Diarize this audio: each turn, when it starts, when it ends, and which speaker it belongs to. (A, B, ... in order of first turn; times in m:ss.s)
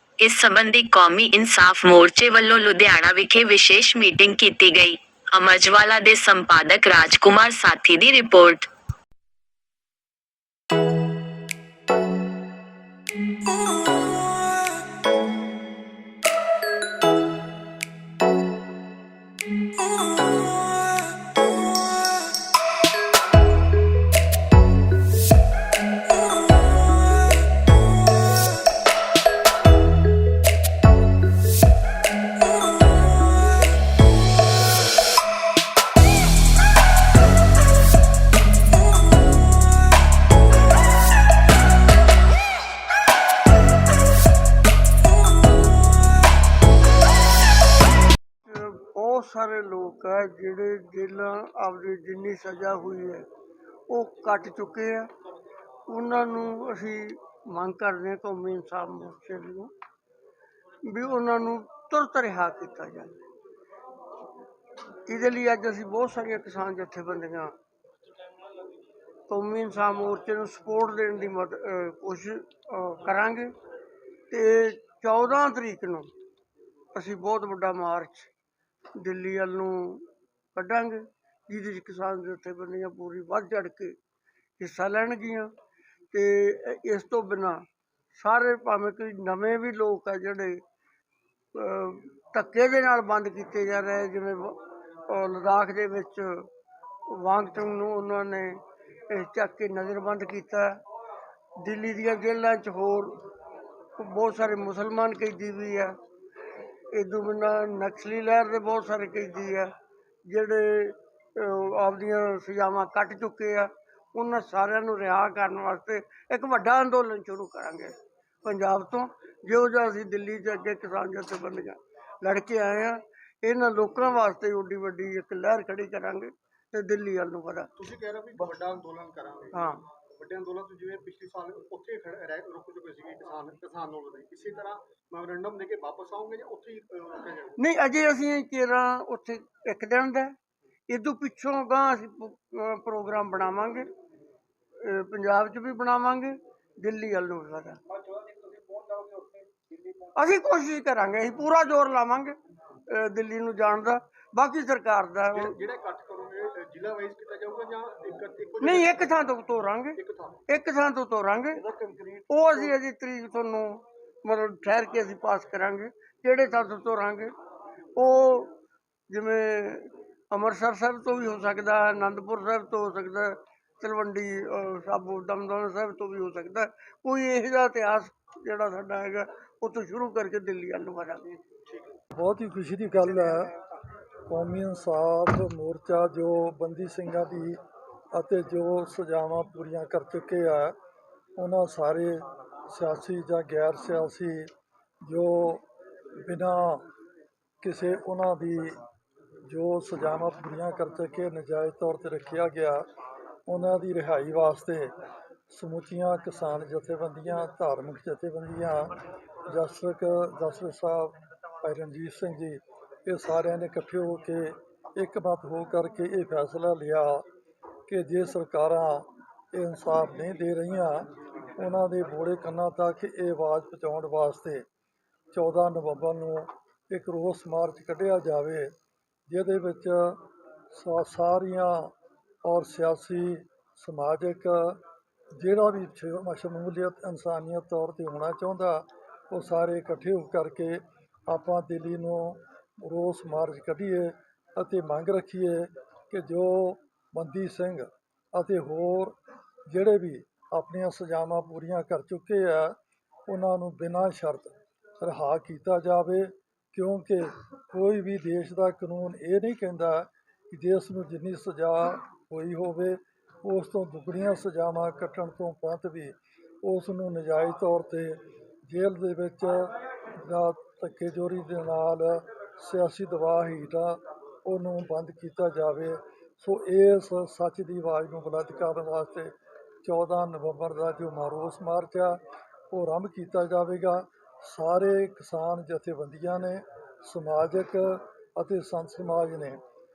0:00.2-0:08.7 A
0:48.4-0:53.3 B
0:53.9-0:55.1 B
0:55.9-0:59.7 B
1:00.9-1:03.1 B
1:05.1-1:07.5 B
1:09.3-1:13.5 B
1:14.3-1:16.1 B
1:16.9-1:18.3 B
1:19.0-1:24.0 B
1:24.6-1:25.5 B
1:26.1-1:27.6 B
1:28.2-1:30.6 B
1:31.6-1:36.5 B
1:37.1-1:38.6 B
1:39.1-1:40.8 B
1:41.6-1:43.2 B
1:44.0-1:46.0 B
1:46.9-1:49.7 B
1:50.3-2:07.7 B
2:07.8-2:09.6 C
2:09.5-2:09.8 B
2:10.2-2:17.5 C
2:17.6-2:20.4 B
2:20.9-2:23.9 B
2:24.8-2:27.8 B
2:30.1-2:32.4 B
2:32.9-2:35.5 B
2:35.4-2:39.3 C
2:38.6-2:40.0 B
2:40.0-2:40.4 C
2:40.5-2:41.6 B
2:41.7-2:42.2 C
2:42.3-2:47.3 B
2:48.0-2:48.5 B
2:49.1-3:01.3 B
3:02.1-3:03.5 D
3:04.3-3:07.6 D
3:08.1-3:10.8 D
3:11.4-3:14.5 D
3:15.0-3:15.6 D
3:16.2-3:16.8 D
3:17.6-3:18.8 D
3:19.5-3:22.9 D
3:23.5-3:24.9 D
3:25.5-3:37.2 D
3:37.9-3:44.6 D
3:45.3-3:48.7 D
3:49.3-3:50.2 D
3:50.7-3:51.9 D
3:52.4-3:54.8 D
3:55.4-4:09.2 D
4:09.7-4:39.3 D
4:39.8-4:42.2 D
4:42.7-4:49.6 D